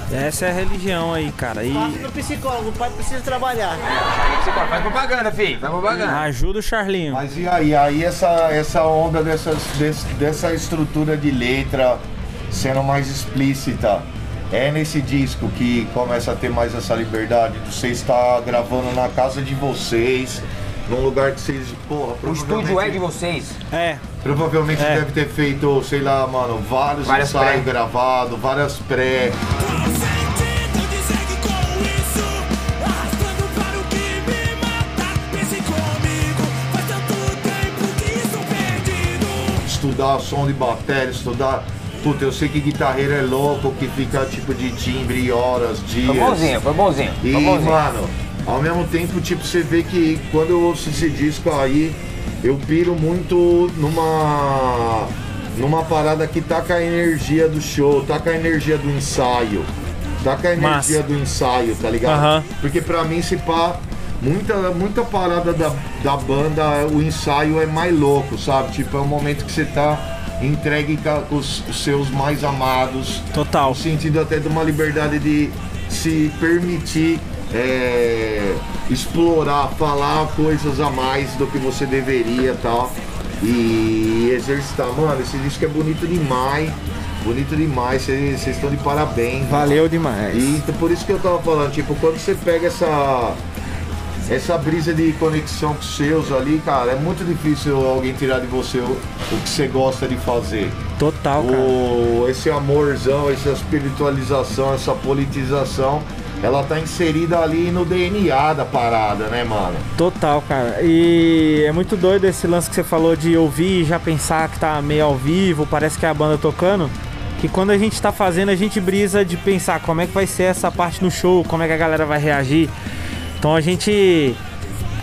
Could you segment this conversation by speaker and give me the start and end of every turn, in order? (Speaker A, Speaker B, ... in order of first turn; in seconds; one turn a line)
Speaker A: 0.1-2.1
Speaker B: 1.7-3.8
Speaker C: 3.9-6.2
Speaker A: 6.0-7.2
Speaker D: 7.1-23.0
Speaker C: 22.2-23.6
Speaker A: 23.7-24.0
Speaker D: 24.2-29.4
Speaker A: 24.7-25.1
Speaker C: 27.1-27.6
Speaker E: 29.6-39.6
Speaker D: 39.6-46.6
Speaker C: 46.0-47.8
Speaker D: 47.2-93.4
Speaker A: 60.6-61.0
Speaker A: 62.0-62.5
Speaker A: 73.3-73.8
Speaker A: 89.5-90.6
Speaker D: 94.3-100.8
Speaker A: 101.0-101.8
Speaker D: 101.4-109.8
Speaker A: 110.0-122.7
Speaker A: 123.4-124.4